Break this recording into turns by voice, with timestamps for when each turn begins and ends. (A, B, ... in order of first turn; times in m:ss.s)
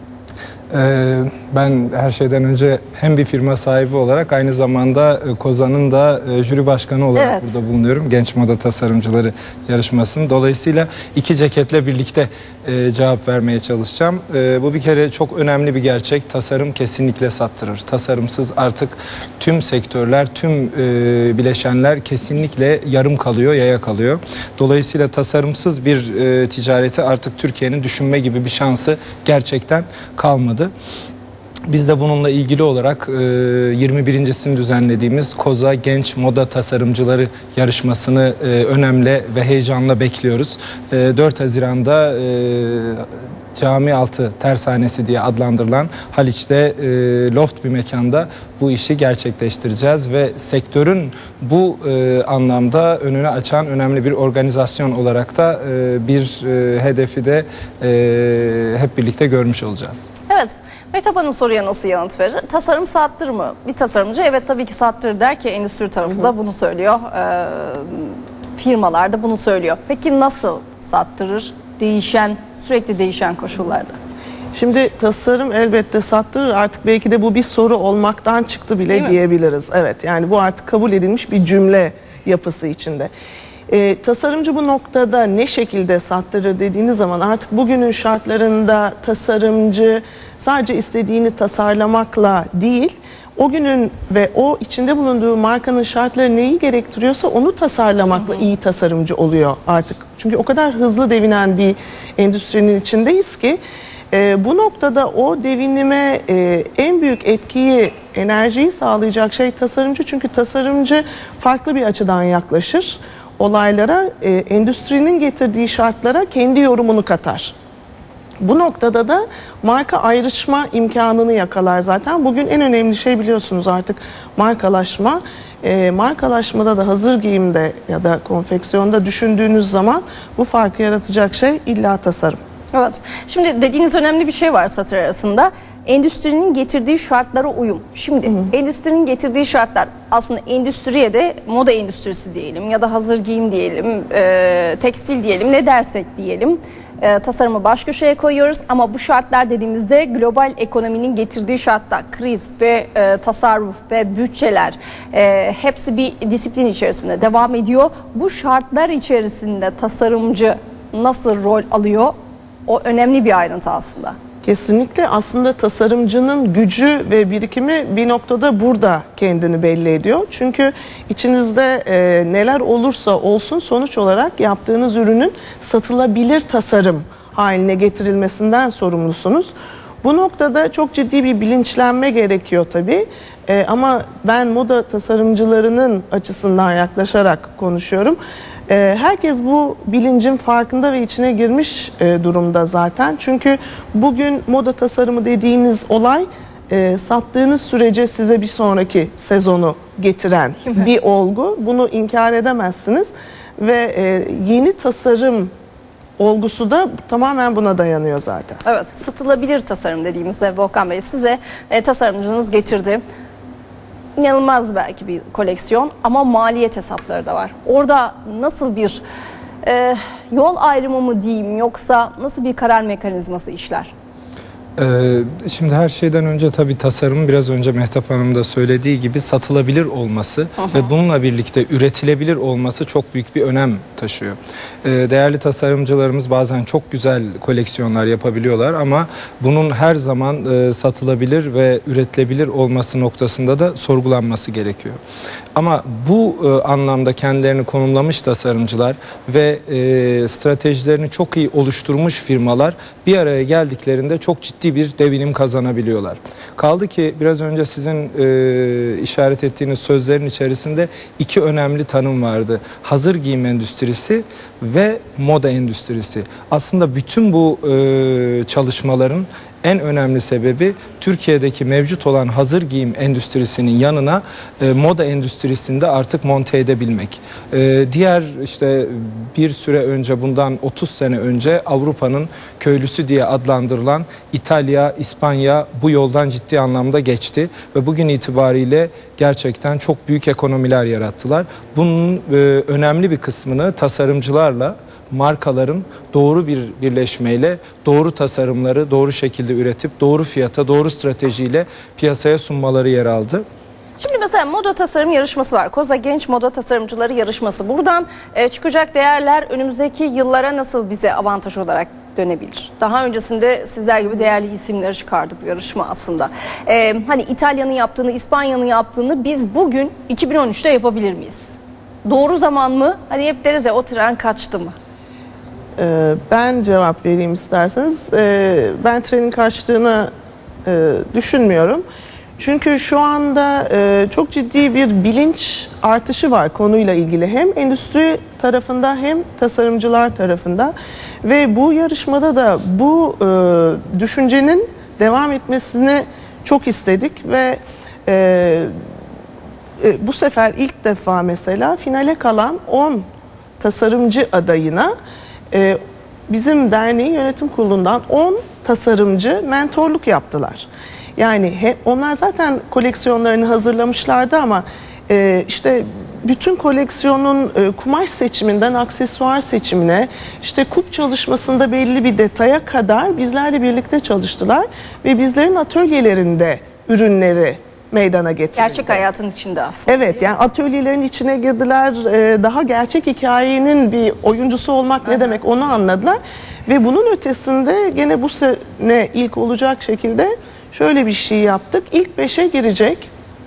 0:00.7-0:30.7 A
0:07.2-0:07.5 B
0:31.7-1:00.1 A
1:00.3-1:14.0 B
1:14.5-1:23.1 C
1:23.7-1:43.6 C
1:44.1-1:57.5 C
1:58.4-2:12.4 C
2:12.7-2:42.1 B
2:42.6-2:44.2 B
2:44.4-3:25.5 C
3:26.2-3:28.6 C
3:28.6-3:33.0 B
3:34.2-3:39.0 B
3:39.6-3:43.9 B
3:44.8-4:05.0 A
3:50.6-3:50.9 B
4:05.6-5:03.4 A
5:04.0-5:24.7 B
5:25.8-5:30.1 C
5:30.6-5:31.8 C
5:32.4-5:48.8 C
5:49.8-5:53.0 C
5:53.6-5:54.9 C
5:55.5-6:19.0 C
6:18.6-6:20.2 B
6:19.9-6:33.1 C